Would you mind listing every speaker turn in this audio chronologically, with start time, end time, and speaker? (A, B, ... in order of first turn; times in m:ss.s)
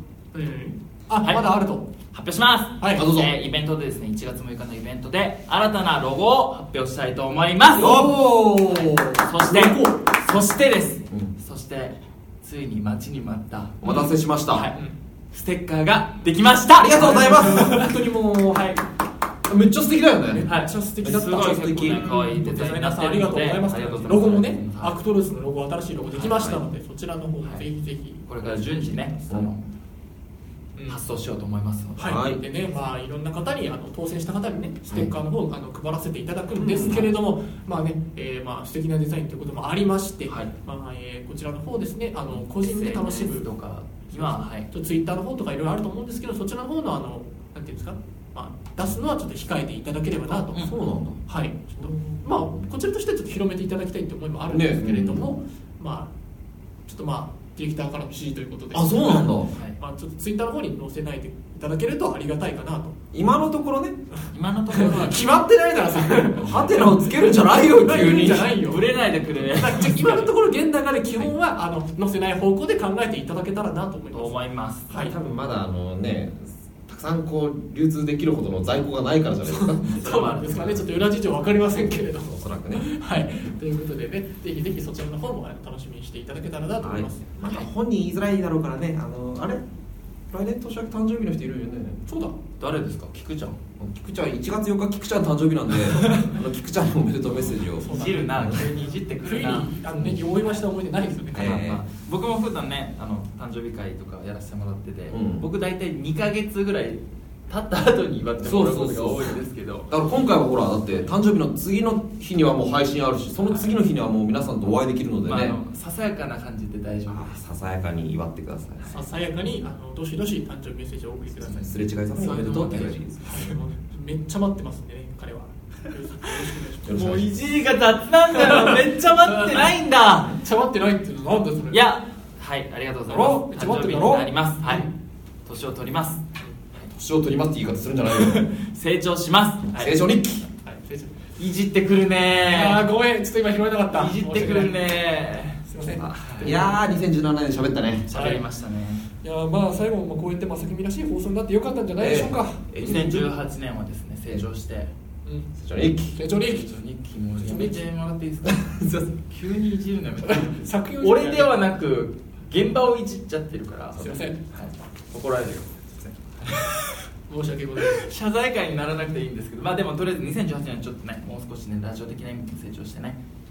0:00.3-0:01.9 A
0:02.1-0:08.1 B
0:02.8-0:03.1 A
0:03.0-0:03.3 C
0:07.8-0:08.8 C
0:07.8-0:10.0 A
0:09.0-0:18.0 B
0:13.8-0:14.7 C
0:16.8-0:17.9 C
0:17.0-0:18.7 A
0:18.5-0:18.8 B
0:19.5-0:20.5 C
0:20.3-0:29.2 A
0:20.4-0:24.9 B
0:21.0-0:22.1 C
0:26.1-0:26.4 B
0:28.3-0:29.6 B
0:30.8-0:31.0 A
0:30.9-0:32.2 B
0:32.0-0:43.5 A
0:32.0-0:32.4 C
0:36.5-0:37.1 C
0:42.3-0:44.7 B
0:44.1-0:50.8 A
0:50.5-0:51.2 C
0:51.3-0:56.1 A
0:51.8-0:52.6 C
0:54.5-0:55.3 C
0:56.9-1:03.0 A
0:58.7-0:59.5 C
1:03.1-1:04.0 C
1:04.3-1:05.2 B
1:04.7-1:14.3 A
1:06.4-1:08.5 C
1:06.4-1:06.7 B
1:08.6-1:10.3 B
1:14.1-1:14.9 B
1:14.9-1:15.1 A
1:14.9-1:20.8 C
1:19.5-1:27.6 A
1:19.8-1:20.8 B
1:22.3-1:22.9 C
1:26.8-1:29.6 C
1:30.3-1:32.0 C
1:32.1-1:32.4 A
1:32.6-1:33.6 B
1:33.8-1:37.9 C
1:36.0-1:36.3 B
1:37.8-1:40.6 B
1:37.8-1:41.6 A
1:38.4-1:38.6 C
1:41.3-1:41.8 C
1:41.3-1:49.9 B
1:45.1-1:45.4 C
1:48.4-1:49.4 C
1:49.9-1:55.6 C
1:55.2-1:57.4 B
1:57.1-1:58.9 C
1:58.9-2:01.8 A
2:01.6-2:03.5 C
2:02.1-2:03.0 B
2:03.2-2:07.2 A
2:06.8-2:07.4 C
2:06.9-2:10.4 B
2:08.4-2:08.8 A
2:09.3-2:09.6 A
2:10.4-2:11.8 A
2:11.7-2:14.9 B
2:13.1-2:14.9 A
2:15.4-2:16.2 B
2:16.9-2:18.4 C
2:18.1-2:20.0 B
2:19.8-2:20.5 C
2:20.6-2:21.2 A
2:21.4-2:22.8 B
2:22.4-2:24.8 A
2:23.9-2:26.6 B
2:25.7-2:26.7 A
2:25.8-2:28.1 C
2:28.1-2:29.1 B
2:28.1-2:28.4 A
2:29.2-2:33.2 A
2:32.0-2:33.2 C
2:32.8-2:34.9 B
2:35.2-2:35.5 A
2:35.6-2:36.2 C
2:36.1-2:36.6 A
2:36.4-2:47.0 B
2:37.4-2:37.8 A
2:38.4-2:39.1 C
2:40.2-2:41.5 A
2:44.0-2:44.4 A
2:47.3-2:48.0 A
2:47.8-2:53.2 B